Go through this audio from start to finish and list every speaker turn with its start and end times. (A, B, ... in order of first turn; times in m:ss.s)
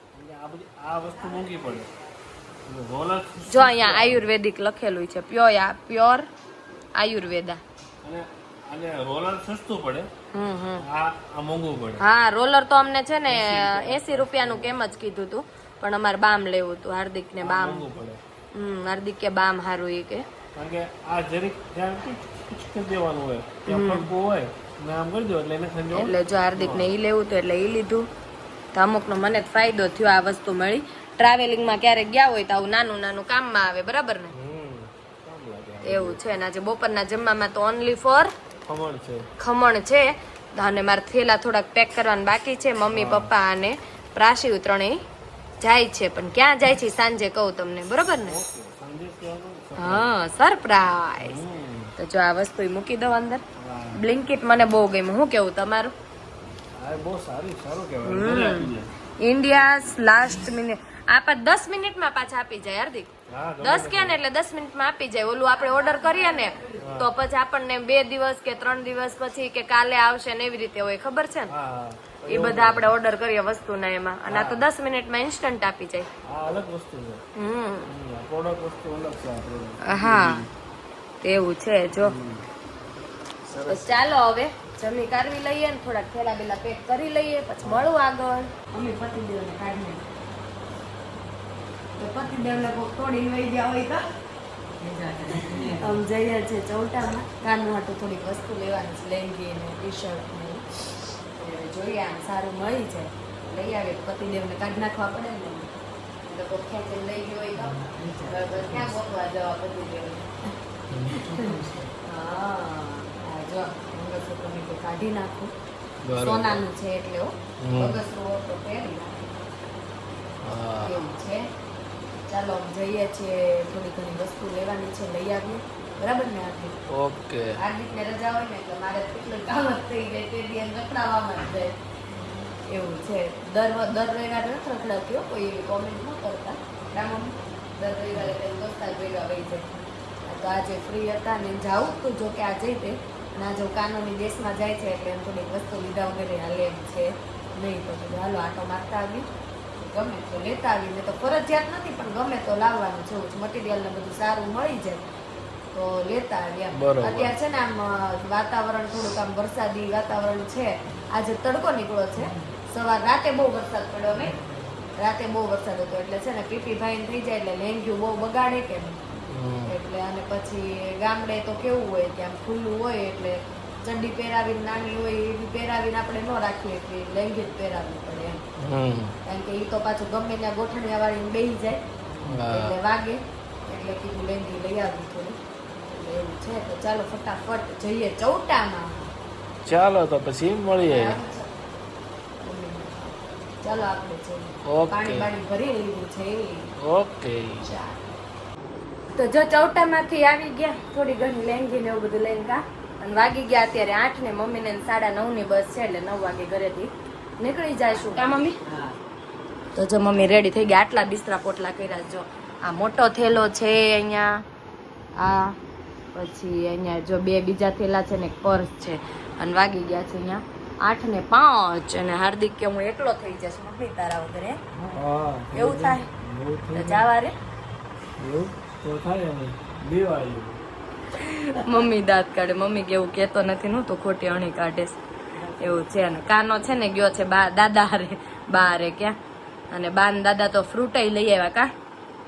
0:00.1-0:01.9 A
0:02.6-0:04.2 A
0:03.4-0:06.3 B
0:06.9-0:07.6 B
0:08.0-0:10.1 A
0:10.3-0:10.8 B
0:10.8-0:12.0 A
0:12.0-0:17.9 B
0:13.3-0:14.9 A
0:17.4-0:18.2 A
0:18.5-0:20.2 B
0:20.6-0:27.0 A
0:23.6-0:24.1 B
0:25.9-0:28.1 B
0:28.7-0:34.3 B
0:34.3-0:36.4 A
0:35.8-0:38.3 B
0:38.6-0:39.3 A
0:39.4-0:45.0 B
0:42.9-0:43.3 A
0:45.6-0:48.4 B
0:48.2-0:50.1 A
0:49.8-0:51.4 B
0:51.2-0:51.9 A
0:52.0-0:53.4 B
0:53.6-0:54.1 A
0:54.0-0:55.9 B
0:56.8-0:58.9 A
0:58.0-1:03.1 B
0:59.6-1:00.0 A
1:03.3-1:04.2 A
1:03.6-1:11.5 B
1:05.5-1:06.9 C
1:06.8-1:07.1 A
1:11.5-1:12.9 A
1:12.3-1:16.1 B
1:14.3-1:14.6 A
1:16.2-1:17.2 A
1:17.4-1:17.9 B
1:17.9-1:20.5 A
1:19.8-1:20.4 B
1:21.2-1:22.1 B
1:22.0-1:22.4 A
1:23.4-1:23.9 A
1:23.6-1:30.0 B
1:27.6-1:27.9 A
1:32.0-1:34.0 B
1:34.8-1:35.9 C
1:35.8-1:40.6 B
1:41.4-1:45.7 B
1:46.3-1:50.3 B
1:47.8-1:48.9 C
1:50.9-1:51.5 A
1:51.3-1:55.5 B
1:56.0-1:56.6 A
1:56.2-1:59.3 B
1:57.6-1:58.0 A
2:00.4-2:01.0 A
2:00.8-2:01.5 B
2:02.3-2:06.8 B
2:06.9-2:07.6 A
2:07.6-2:11.7 B
2:12.2-2:12.5 C
2:12.6-2:19.7 B
2:20.3-2:29.3 B
2:29.8-2:35.1 B
2:35.7-2:44.4 B
2:36.7-2:37.4 A
2:45.0-2:49.0 B
2:49.2-2:49.7 A
2:49.6-2:58.4 B
2:58.6-2:59.2 A
2:59.2-3:01.8 B
3:02.2-3:02.8 A
3:02.4-3:09.1 B
3:09.6-3:11.2 A
3:10.8-3:11.6 B
3:12.4-3:16.7 B
3:14.6-3:15.3 A
3:16.8-3:17.6 A
3:17.6-3:18.0 B
3:19.1-3:28.6 B
3:27.9-3:29.0 C
3:29.7-3:34.4 B
3:35.2-3:35.6 B
3:36.1-3:44.6 B
3:44.8-3:47.0 A
3:45.5-3:46.1 B
3:46.7-3:47.3 B
3:48.2-3:50.6 A
3:51.1-3:55.0 B
3:55.3-3:56.2 C
3:55.6-3:59.2 B
3:59.7-4:01.7 B